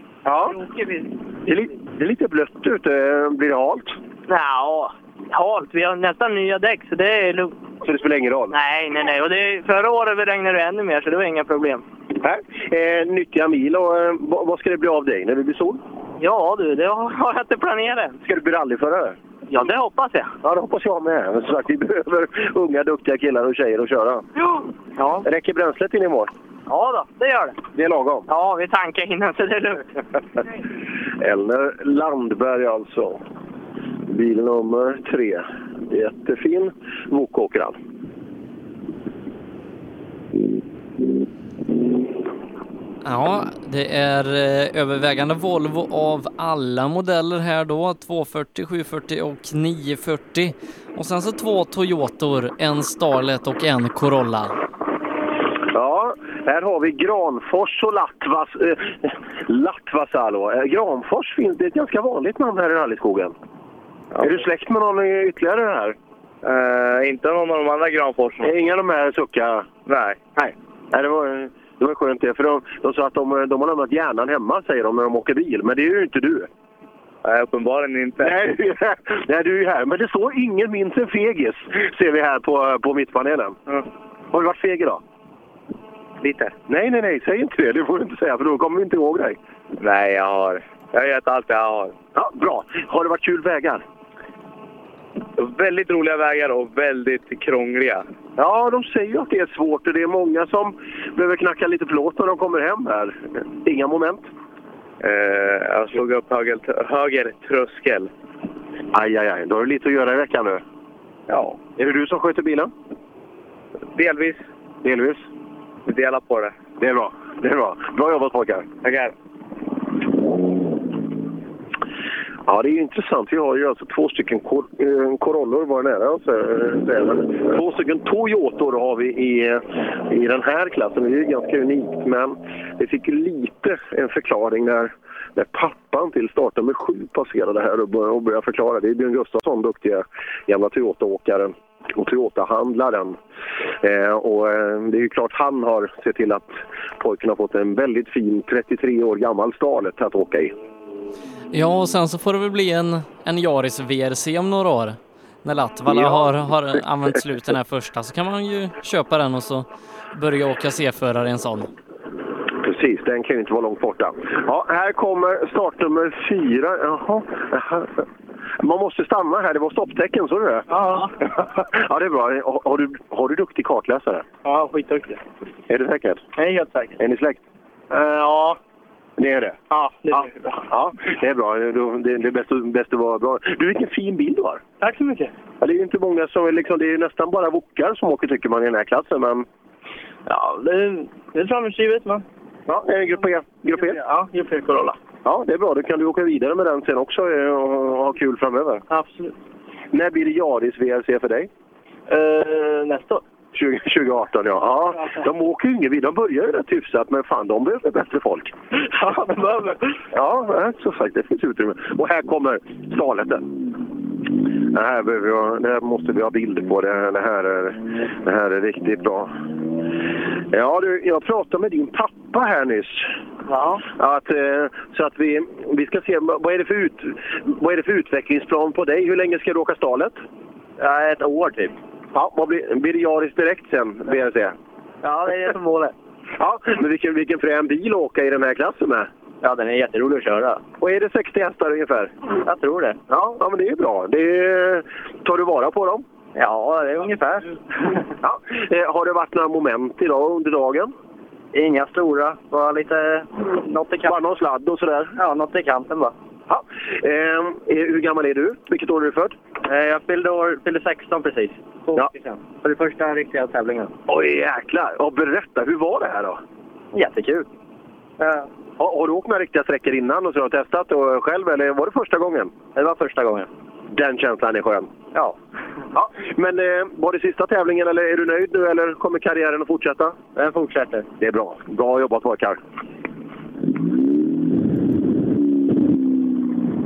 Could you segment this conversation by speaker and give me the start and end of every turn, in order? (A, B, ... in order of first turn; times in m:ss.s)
0:00.2-0:00.5 A
0:00.5-0:01.0 B
0:01.4-0:04.0 A
0:04.3-0:07.5 B
0:07.8-0:08.5 A
0:08.5-0:11.8 B
0:12.2-0:15.8 A
0:16.2-0:18.2 B
0:18.2-0:19.2 A
0:19.5-0:20.3 B
0:20.4-0:24.2 A
0:25.2-0:26.3 A
0:26.7-0:27.5 B
0:27.7-0:28.2 A
0:28.3-0:29.9 B
0:31.2-0:33.2 A
0:34.1-0:37.8 A
0:43.0-0:54.5 C
0:55.7-1:03.3 A
1:04.2-1:06.0 A
1:06.4-1:08.4 B
1:08.4-1:09.7 A
1:09.9-1:10.1 B
1:10.9-1:16.5 A
1:17.3-1:18.2 B
1:18.2-1:23.6 A
1:24.3-1:25.0 A
1:26.2-1:26.5 B
1:26.7-1:29.4 A
1:29.8-1:31.9 B
1:32.1-1:33.8 A
1:35.4-1:38.0 B
1:38.4-1:44.3 A
1:45.0-1:48.1 B
1:48.9-1:50.6 A
1:51.8-1:52.7 A
1:54.0-1:54.4 B
1:54.8-1:55.2 A
1:55.9-1:56.5 B
1:56.8-1:58.6 A
2:02.4-2:23.2 A
2:23.8-2:30.5 A
2:31.5-2:41.7 C
2:35.9-2:36.3 A
2:42.6-2:48.0 A
2:48.6-2:50.6 A
2:51.4-2:54.2 A
2:55.7-2:56.2 A
2:57.0-2:57.4 A
2:59.2-3:04.6 A
3:05.6-3:09.5 A
3:10.4-3:12.1 B
3:12.7-3:14.0 A
3:15.2-3:18.8 A
3:18.9-3:19.2 B
3:19.9-3:21.5 A
3:23.5-3:28.6 A
3:30.1-3:33.4 A
3:34.7-3:39.3 A
3:40.5-3:43.1 A
3:43.9-3:50.2 A
3:50.8-3:51.7 B
3:52.1-3:54.5 A
3:55.0-3:55.9 B
3:56.4-3:59.1 A
3:59.4-4:00.6 B
4:00.8-4:02.1 A
4:02.4-4:03.0 B
4:03.3-4:06.0 A
4:06.4-4:07.4 B
4:08.2-4:10.9 A
4:11.5-4:14.1 B
4:14.0-4:15.1 A
4:15.2-4:16.1 B
4:16.5-4:19.3 A
4:19.7-4:23.9 B
4:24.1-4:26.4 A
4:26.9-4:27.4 B
4:28.8-4:32.5 A
4:32.8-4:33.4 B
4:33.9-4:34.9 A
4:35.9-4:40.2 A
4:40.4-4:41.0 B
4:41.2-4:42.6 A